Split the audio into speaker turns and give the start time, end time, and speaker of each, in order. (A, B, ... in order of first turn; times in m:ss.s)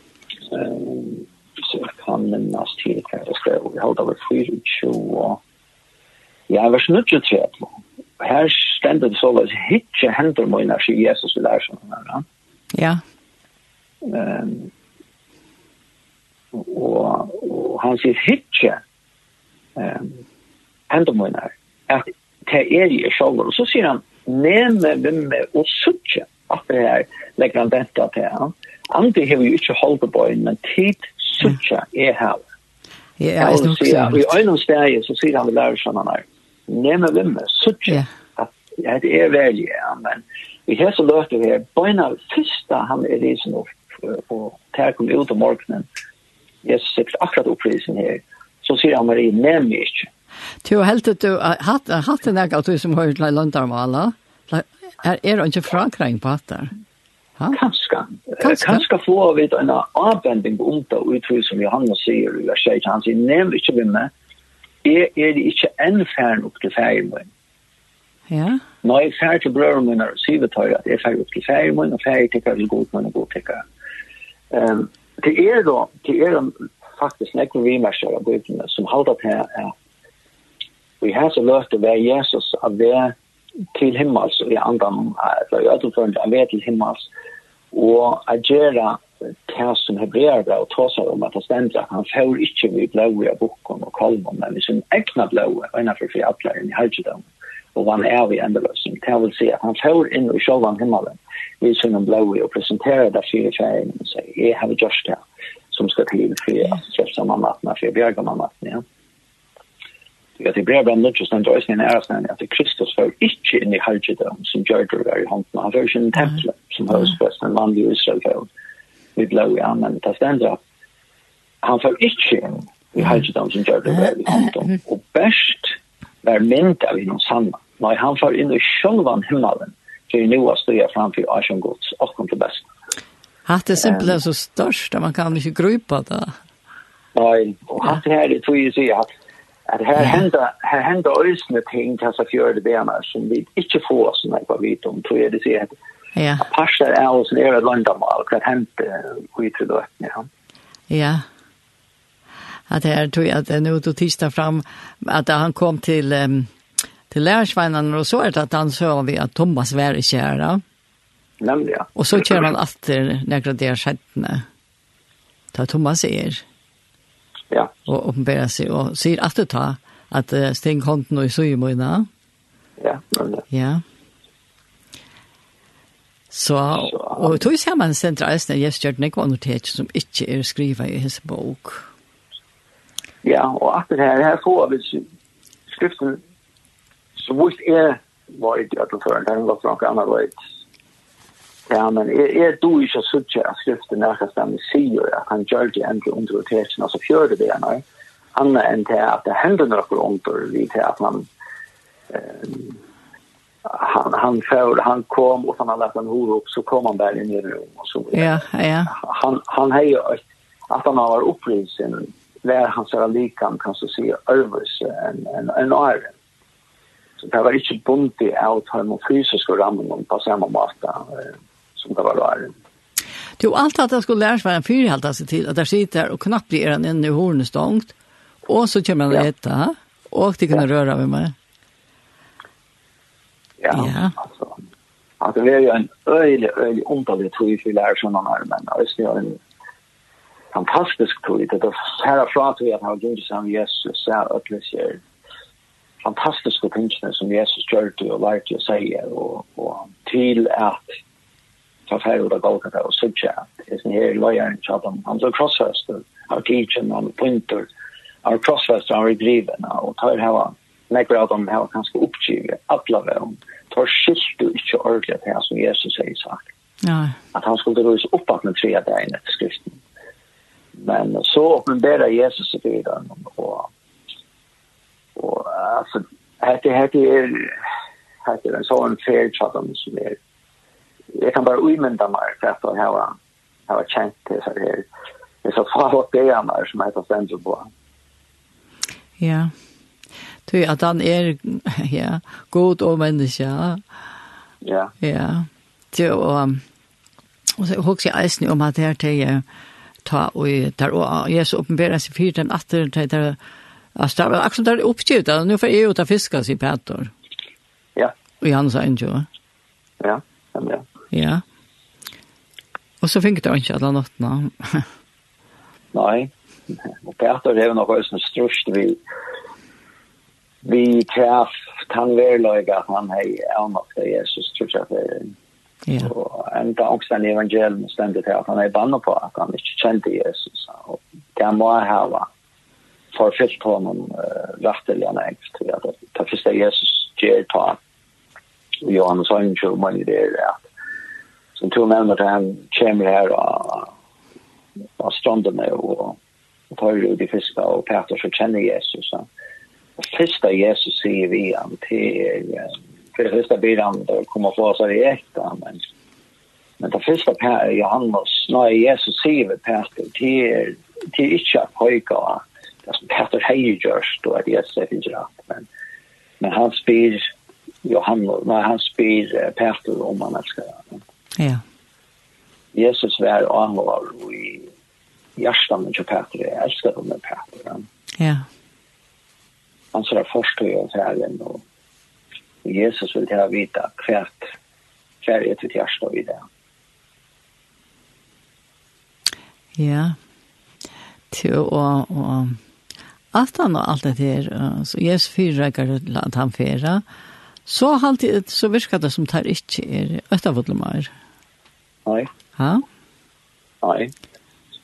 0:00.5-0:05.4 A
0:06.5-0:12.2 A
0:12.7-0:13.0 B
0:14.0-0:14.7 A
0:16.5-0:18.8 A
0:19.8-0:20.2 A
0:20.9-0:32.4 A
0:33.2-0:34.3 B
0:33.4-0:45.9 A
0:46.6-0:50.1 A
0:50.6-0:56.7 B
0:57.5-1:04.1 A
0:58.4-0:58.8 B
1:04.8-1:07.3 A
1:08.3-1:08.6 B
1:08.8-1:13.6 A
1:14.5-1:19.7 A
1:21.0-1:23.2 A
1:23.7-1:27.1 A
1:27.7-1:48.8 A
1:50.4-1:58.5 A
1:59.2-2:00.6 A
2:01.6-2:12.7 A
2:13.5-2:16.4 B
2:13.8-2:14.1 A
2:17.2-2:19.1 A
2:19.7-2:25.7 A
2:26.2-2:26.5 B
2:26.4-2:30.3 A
2:30.9-2:31.2 B
2:32.7-2:36.5 B
2:37.1-2:40.6 B
2:41.4-2:41.9 A
2:42.0-2:44.4 B
2:45.5-2:46.4 B
2:47.9-2:52.1 B
2:52.8-2:53.4 A
2:53.5-2:53.8 B
2:56.3-3:01.8 B
2:56.9-2:57.3 A
3:03.2-3:05.0 A
3:05.7-3:06.2 A
3:07.2-3:10.3 A
3:11.7-3:17.8 A
3:18.4-3:21.3 A
3:22.1-3:22.8 A
3:23.6-3:36.1 A
3:28.1-3:29.0 B
3:37.2-3:42.5 A
3:43.4-3:47.9 B
3:48.5-3:51.4 B
3:53.6-3:54.6 A
3:53.7-3:54.2 B
3:55.2-3:59.4 A
4:00.5-4:05.0 A
4:06.0-4:10.9 A
4:11.9-4:17.7 A
4:18.2-4:26.4 A
4:26.8-4:27.2 B
4:27.3-4:29.8 A
4:30.8-4:33.7 A
4:35.2-4:37.6 A
4:38.2-4:40.2 A
4:41.1-4:43.2 A
4:43.7-4:44.9 A
4:45.4-4:47.7 A
4:49.2-4:49.5 B
4:50.5-4:53.8 B
4:54.6-4:54.9 A
4:55.0-4:56.6 B
4:57.6-4:59.4 B
5:00.0-5:03.4 B
5:04.0-5:07.1 B
5:08.4-5:09.3 B
5:10.0-5:10.9 A
5:11.1-5:11.4 B
5:13.0-5:14.9 B
5:15.9-5:19.0 A
5:20.6-5:25.3 A
5:26.0-5:32.3 A
5:33.1-5:37.8 A
5:38.8-5:40.6 A
5:41.6-5:43.9 A
5:45.0-5:46.2 A
5:46.7-5:49.3 A
5:50.0-5:55.8 A
5:56.8-6:05.7 A
6:06.4-6:07.2 A
6:07.8-6:11.0 A
6:11.4-6:11.6 B
6:12.7-6:14.7 A
6:15.4-6:17.8 A
6:18.2-6:18.5 B
6:19.9-6:21.6 A
6:22.6-6:24.5 A
6:25.2-6:26.4 A
6:29.8-6:30.2 B
6:31.3-6:32.6 B
6:33.3-6:37.0 B
6:37.7-6:41.1 B
6:42.6-6:42.8 B
6:43.8-6:44.1 A